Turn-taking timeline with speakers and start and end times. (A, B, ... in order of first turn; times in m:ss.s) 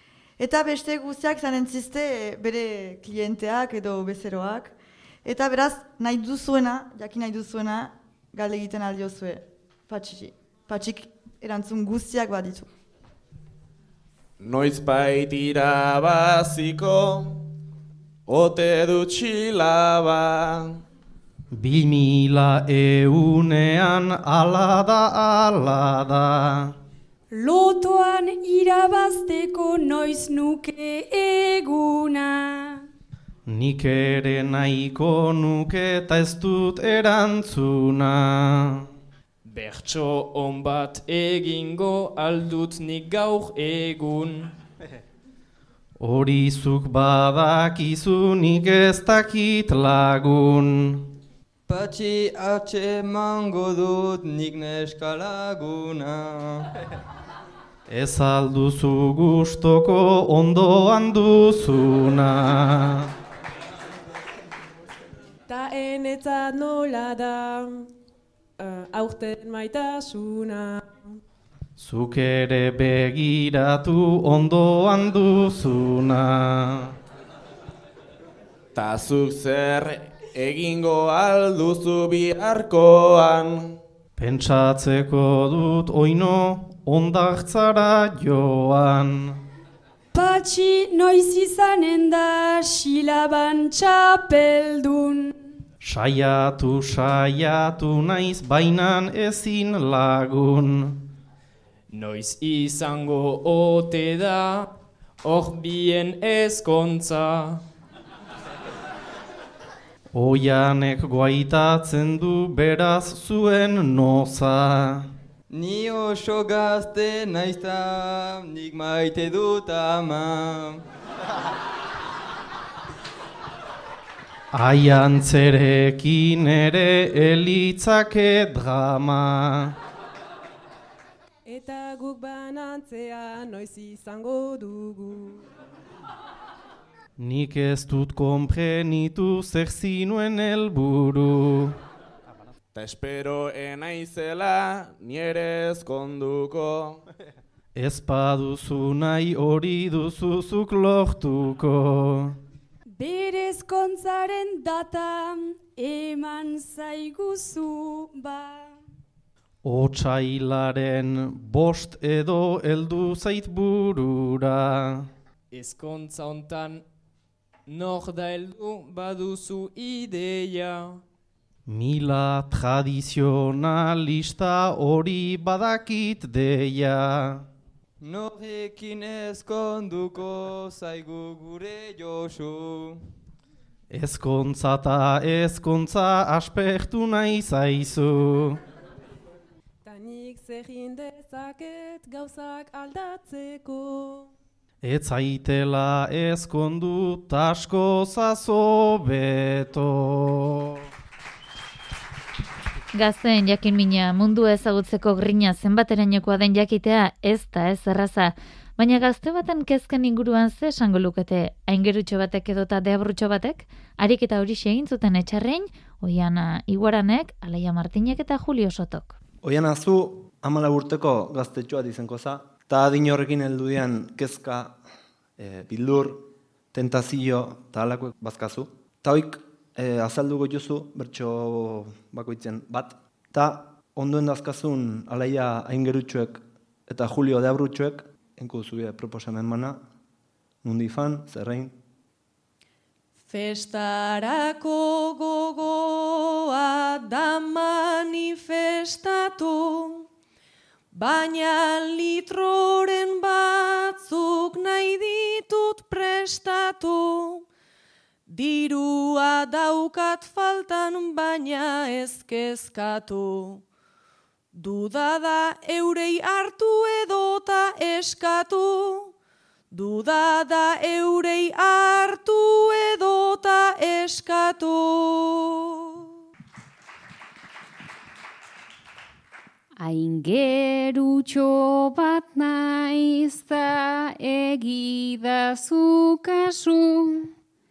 0:00.4-0:12.7 A
0:14.4-0:17.4 B
0:18.3-0:20.8 B
0:21.5-0:26.8 C
0:27.3-0:32.8 D
0:33.5-0:38.9 C
0:39.6-0:44.3 E
0:46.0-0:51.1 C
0:51.7-0:56.7 F
0:57.9-1:03.1 C
1:05.5-1:07.9 G
1:08.6-1:11.0 G
1:11.8-1:16.9 C
1:18.8-1:23.8 B
1:24.2-1:29.4 C
1:30.1-1:35.3 D
1:35.8-1:41.0 C
1:42.0-1:44.4 E
1:45.3-1:47.2 E
1:50.2-1:55.1 C
1:55.5-2:00.8 F
2:04.5-2:09.7 C
2:11.5-2:15.5 G
2:17.2-2:21.8 C
2:22.8-2:27.0 B
2:27.8-2:32.4 C
2:33.0-2:38.7 D
2:39.6-2:45.1 C
2:45.5-2:46.8 E
2:47.7-2:50.8 E
2:51.7-2:57.5 C
2:58.0-3:03.0 F
3:03.9-3:08.6 C
3:09.8-3:14.3 G
3:14.8-3:20.9 C
3:23.0-3:39.2 H
3:39.4-3:44.8 I
3:45.4-3:59.8 I
4:00.6-4:01.7 I
4:03.3-4:10.1 J
4:10.9-4:17.5 J
4:18.3-4:23.6 J
4:24.5-4:29.1 J
4:29.7-4:36.1 J
4:39.8-4:47.3 K